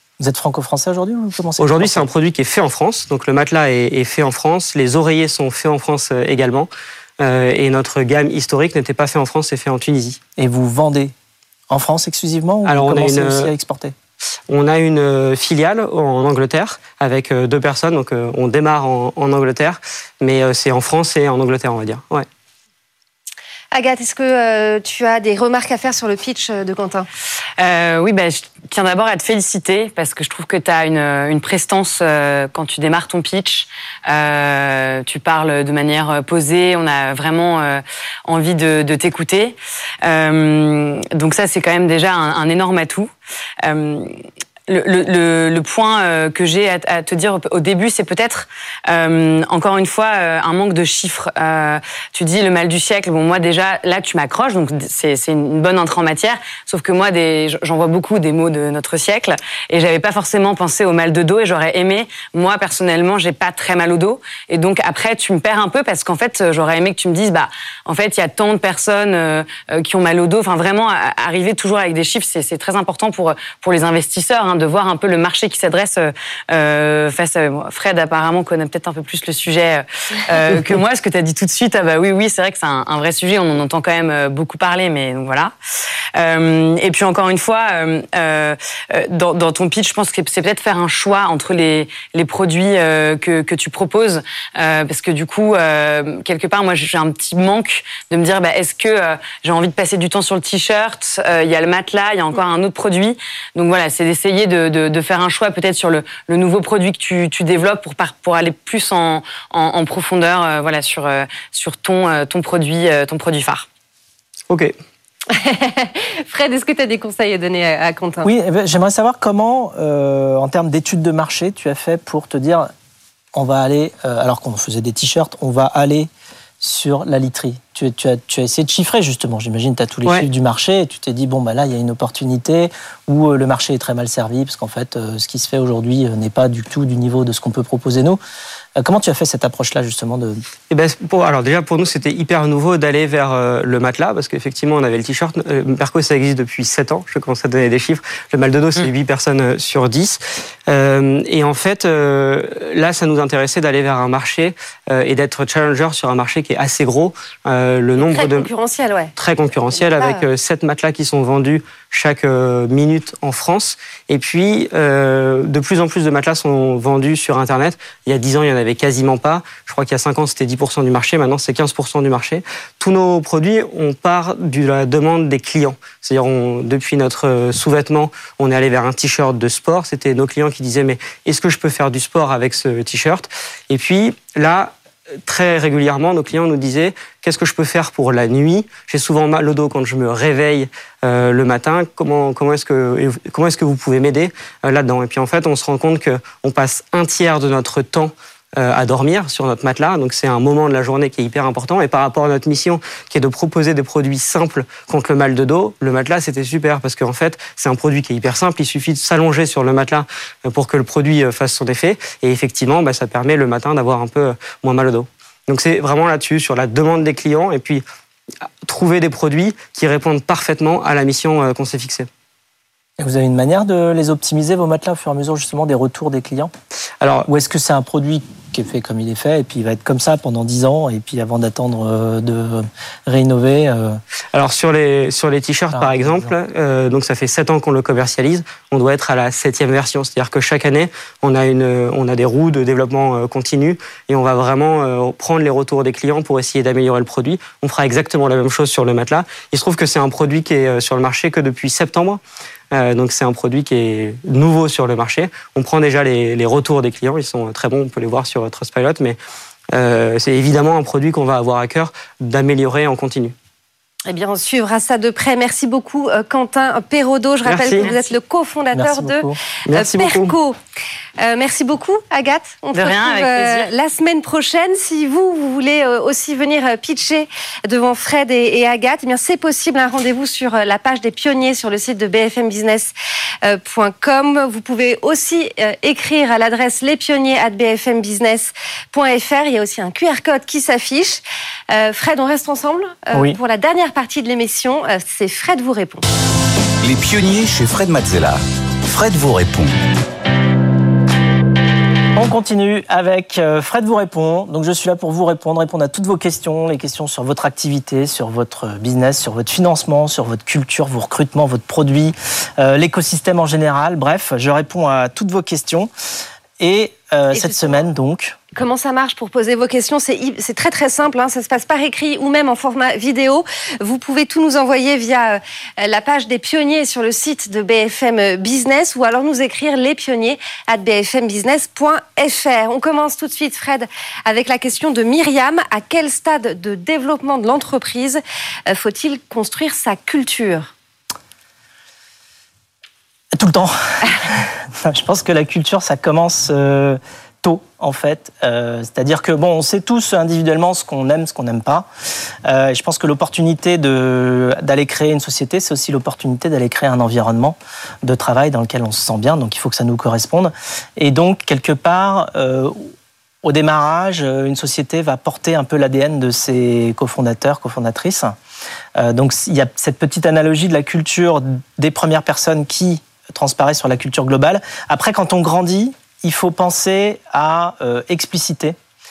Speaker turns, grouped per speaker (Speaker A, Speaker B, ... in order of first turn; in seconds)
Speaker A: 0.2-2.1, 10.4-11.1, 11.7-13.9, 118.2-122.7, 123.3-126.1, 126.6-138.2, 138.8-140.4, 223.0-226.5, 227.2-234.0, 235.7-236.3, 268.7-269.4, 302.1-315.9, 316.6-318.4, 343.3-351.9, 352.4-362.9, 363.4-368.3, 369.0-378.8
Speaker B: 1.6-10.2, 12.7-13.5, 14.5-22.2, 140.7-158.5, 159.2-184.7, 185.2-217.8, 218.6-222.1, 227.0-227.2, 234.3-252.2, 252.7-259.2, 259.7-263.3, 267.4-267.9, 269.7-270.3
Speaker C: 23.7-27.1, 115.3-118.3, 158.0-160.2, 264.1-270.6, 271.2-282.9, 283.4-296.1, 317.3-317.8, 318.5-340.7
Speaker D: 27.6-43.1, 43.6-44.1, 44.7-85.5, 86.1-113.7, 272.7-273.7
Speaker E: 296.8-299.8